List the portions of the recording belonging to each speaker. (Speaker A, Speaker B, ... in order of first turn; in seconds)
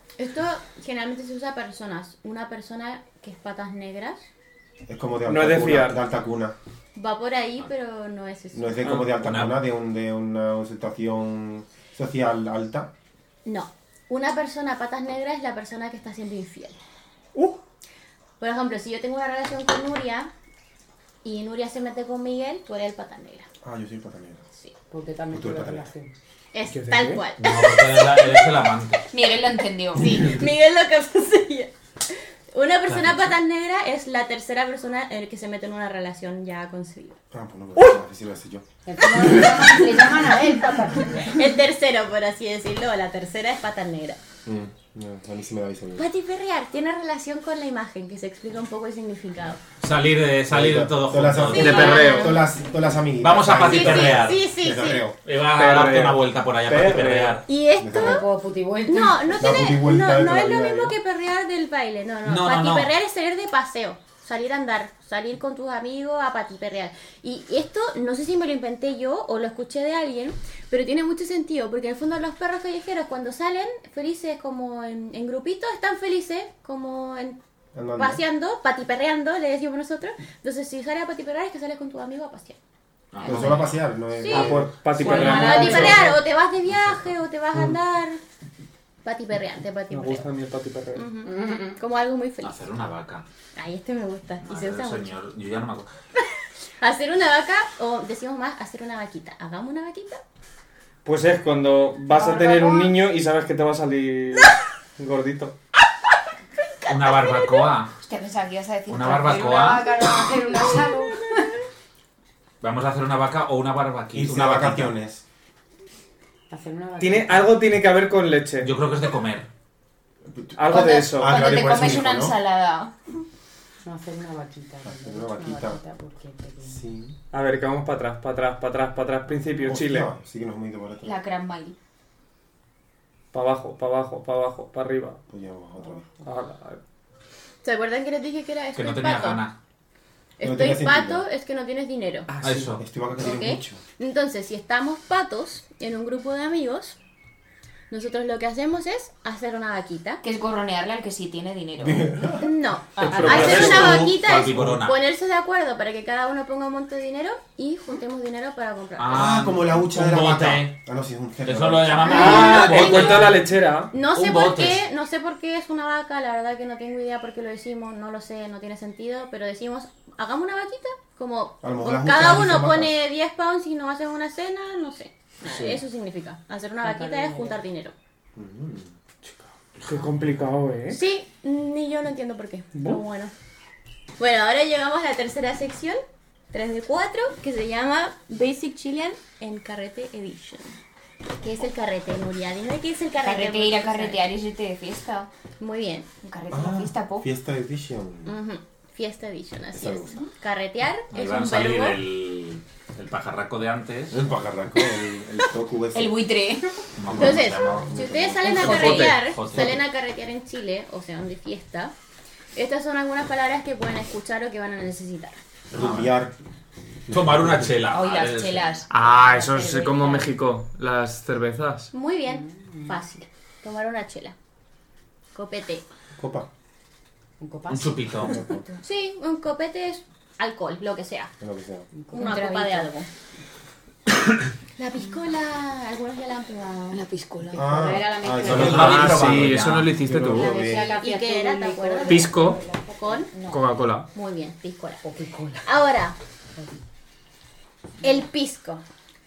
Speaker A: 0.2-4.3, 6.9-8.8, 13.4-16.8, 18.4-20.3, 21.2-23.5, 26.5-28.4, 30.0-31.7, 32.5-37.1, 41.2-44.2, 46.0-49.6, 51.5-52.5, 53.6-55.0, 57.5-58.3, 58.9-77.4, 78.0-82.6, 84.2-88.2, 89.0-90.3, 90.9-92.7, 93.6-95.1, 96.8-100.2, 106.8-107.7, 137.6-139.4, 140.4-142.3, 143.2-147.0, 147.9-150.2, 152.4-159.3, 162.1-163.4, 163.9-177.9, 180.9-183.3, 184.2-186.0, 186.5-190.8, 191.4-194.2, 195.6-196.1, 198.3-202.0, 207.1-211.9, 212.6-215.4, 221.9-224.3, 225.3-225.8, 228.8-231.3, 232.1-233.1, 234.8-237.0, 240.5-242.4, 242.9-243.4, 244.1-245.0, 245.6-246.1, 248.0-248.8
Speaker B: 4.9-6.6, 8.5-12.9, 23.6-24.4, 25.3-25.9, 37.3-39.4, 44.4-46.1, 50.5-55.1, 57.8-58.2, 59.4-60.9, 77.7-78.2, 83.2-85.2, 114.1-115.2, 120.3-122.3, 124.8-125.8, 126.7-127.2, 129.6-131.2, 135.3-136.1, 140.4-141.3, 142.8-143.8, 151.8-152.5, 153.1-154.8, 159.1-162.5, 171.6-172.9, 178.4-178.8, 196.5-198.4, 199.7-200.1, 204.1-206.2, 207.1-208.8, 215.7-216.3, 217.1-217.8, 226.2-226.5, 228.2-228.6, 231.4-231.9, 237.5-240.9
Speaker C: 5.3-6.0, 8.8-9.1, 26.7-27.2, 51.5-52.4, 55.5-57.4, 84.3-86.1, 89.9-91.1, 101.0-105.5, 117.0-118.7, 120.5-121.4, 127.3-130.1, 133.3-135.2, 136.2-136.8, 142.3-142.8, 153.0-154.0, 162.1-163.9, 179.8-181.0, 182.8-183.0, 208.7-209.2, 218.9-221.9, 238.4-240.5, 242.1-242.6, 243.5-244.1
Speaker D: 9.2-9.6, 27.4-29.1, 32.9-33.3, 49.8-52.0, 53.2-54.4, 55.2-57.4, 62.2-62.9, 83.1-83.8, 86.7-87.1, 92.4-93.3, 94.4-95.9, 106.9-107.9, 108.9-109.8, 112.6-114.9, 118.6-119.5, 138.8-139.6, 142.4-142.8, 153.1-155.0, 159.0-160.8, 161.4-163.4, 164.1-164.8, 175.5-175.8, 179.8-180.4, 201.1-204.2, 207.0-209.8, 215.7-216.2, 217.1-218.7, 227.7-228.4, 238.4-239.9
Speaker E: 24.9-26.1, 38.9-41.4, 57.9-59.4, 85.0-86.2, 91.2-91.8, 102.1-102.9, 109.0-111.5, 116.5-117.6, 123.8-126.8, 176.8-177.6, 219.2-220.3, 222.2-223.0, 227.4-228.5, 231.9-232.4, 237.5-239.1, 240.2-243.3, 245.0-245.6
Speaker F: 29.1-30.1, 85.0-86.1, 108.0-111.1, 120.7-122.9, 131.0-131.8, 150.2-152.1, 193.2-195.3, 196.2-197.3, 205.9-206.7, 208.4-209.1, 217.9-218.9, 219.7-220.1, 232.1-232.9, 236.9-237.7, 243.3-243.6